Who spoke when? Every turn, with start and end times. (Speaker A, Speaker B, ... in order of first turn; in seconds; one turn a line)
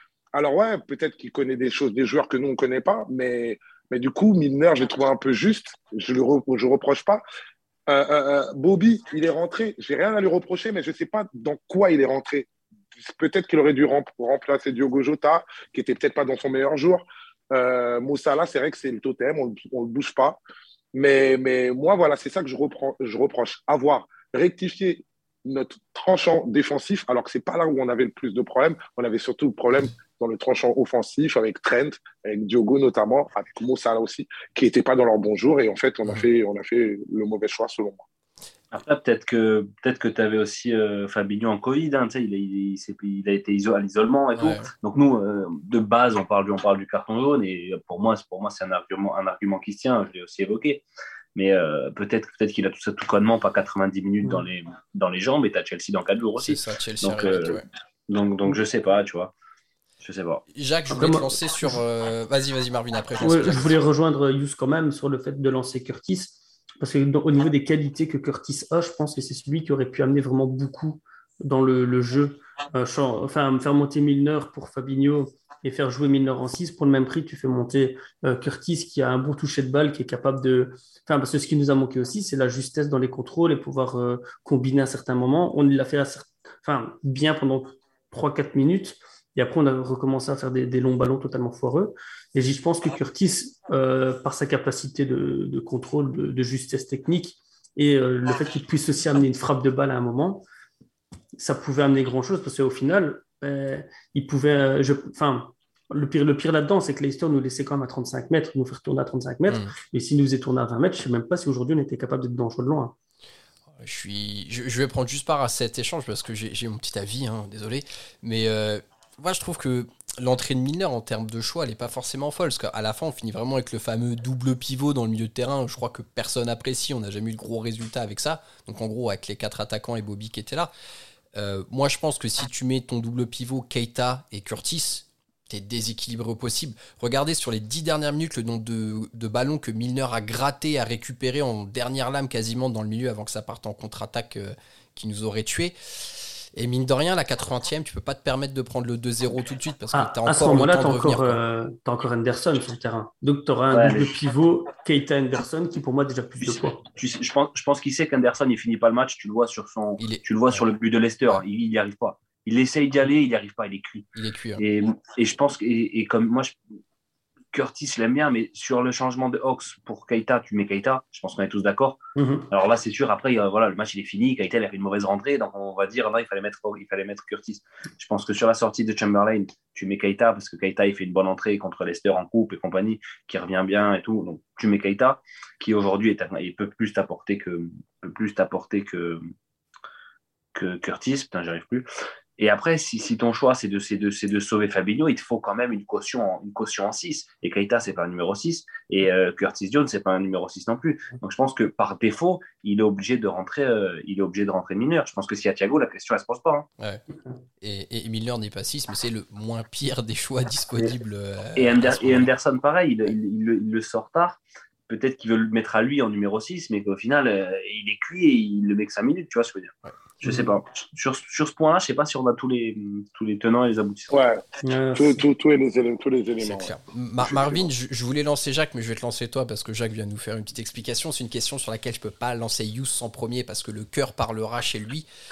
Speaker A: 0.3-7.2
Speaker A: 7.9-20.4
Speaker A: 20.9-38.0
Speaker B: 38.7-50.8
Speaker C: 44.4-44.7
Speaker B: 51.3-59.3
Speaker C: 56.4-57.6
Speaker B: 60.0-60.4
Speaker C: 60.5-63.8
Speaker D: 60.9-61.8
Speaker D: 63.2-100.4
Speaker D: 101.4-112.9
Speaker C: 109.5-109.7
Speaker C: 113.8-130.7
Speaker C: 131.3-151.4
Speaker D: 149.9-156.8
Speaker B: 153.7-154.1
Speaker B: 156.4-164.1
Speaker C: 160.0-160.7
Speaker C: 164.1-164.6
Speaker B: 164.6-166.6
Speaker B: 167.5-189.2
Speaker D: 172.2-172.5
Speaker B: 190.5-191.9
Speaker B: 192.4-206.7
Speaker C: 207.6-212.3
Speaker B: 211.6-224.2
Speaker D: 220.2-220.5
Speaker A: 224.1-224.4
Speaker D: 224.6-225.2
Speaker A: 224.9-227.7
Speaker C: 226.4-235.1